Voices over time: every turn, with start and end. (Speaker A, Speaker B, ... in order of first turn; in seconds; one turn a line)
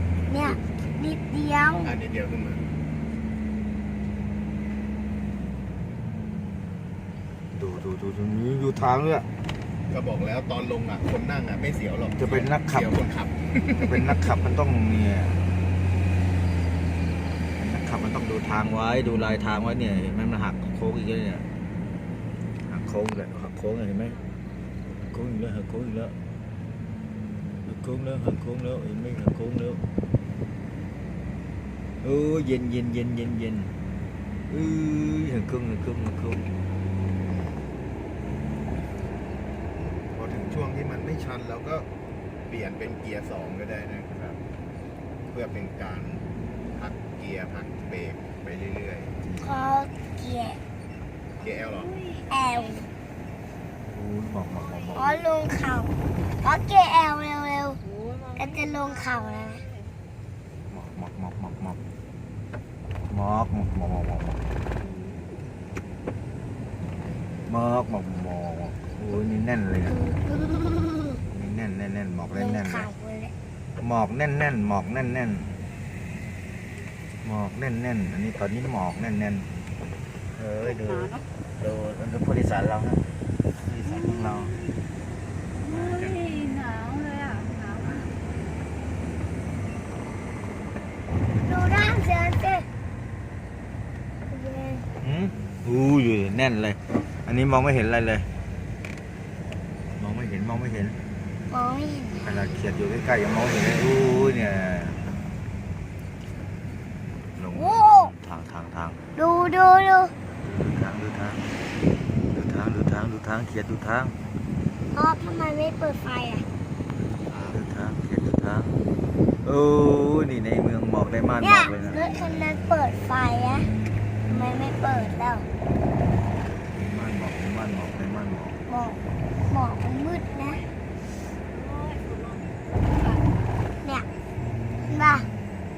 Speaker A: 0.3-2.0
Speaker B: 1.8-2.6
Speaker C: 7.5-9.3
Speaker B: 9.9-14.4
Speaker C: 12.2-13.0
Speaker C: 13.8-15.4
Speaker C: 17.6-21.4
Speaker C: 22.7-24.2
Speaker D: 24.1-24.7
Speaker C: 25.1-26.1
Speaker C: 27.6-29.8
Speaker C: 32.0-33.7
Speaker C: 34.5-36.5
Speaker B: 40.2-41.9
Speaker B: 42.5-44.4
Speaker B: 45.3-49.1
Speaker C: 49.2-49.7
Speaker A: 49.4-50.6
Speaker B: 51.4-51.9
Speaker D: 51.7-52.9
Speaker A: 52.3-52.9
Speaker C: 53.9-55.2
Speaker D: 54.5-55.3
Speaker A: 55.0-57.8
Speaker D: 57.8-60.0
Speaker A: 58.4-59.6
Speaker C: 60.7-61.8
Speaker C: 63.1-64.4
Speaker D: 64.8-65.4
Speaker C: 67.5-70.0
Speaker A: 69.9-71.2
Speaker C: 71.3-72.9
Speaker A: 72.3-73.3
Speaker C: 73.8-75.6
Speaker C: 77.2-79.5
Speaker C: 80.4-83.0
Speaker D: 80.6-81.2
Speaker C: 83.8-84.5
Speaker D: 83.8-84.8
Speaker D: 85.6-88.2
Speaker B: 85.7-86.2
Speaker A: 91.4-92.7
Speaker A: 94.3-94.9
Speaker C: 95.0-98.3
Speaker C: 100.0-101.0
Speaker A: 101.5-102.5
Speaker C: 102.2-105.0
Speaker C: 107.4-109.0
Speaker A: 107.5-108.1
Speaker A: 109.2-110.1
Speaker C: 110.5-111.4
Speaker C: 112.3-114.2
Speaker A: 114.9-116.5
Speaker B: 117.3-117.6
Speaker C: 117.4-118.8
Speaker C: 119.4-122.0
Speaker A: 121.4-123.7
Speaker D: 121.9-122.2
Speaker A: 124.3-125.5
Speaker C: 126.8-128.6
Speaker A: 128.7-129.0
Speaker A: 129.5-130.6
Speaker D: 131.5-133.3
Speaker C: 134.4-135.2
Speaker A: 134.9-135.3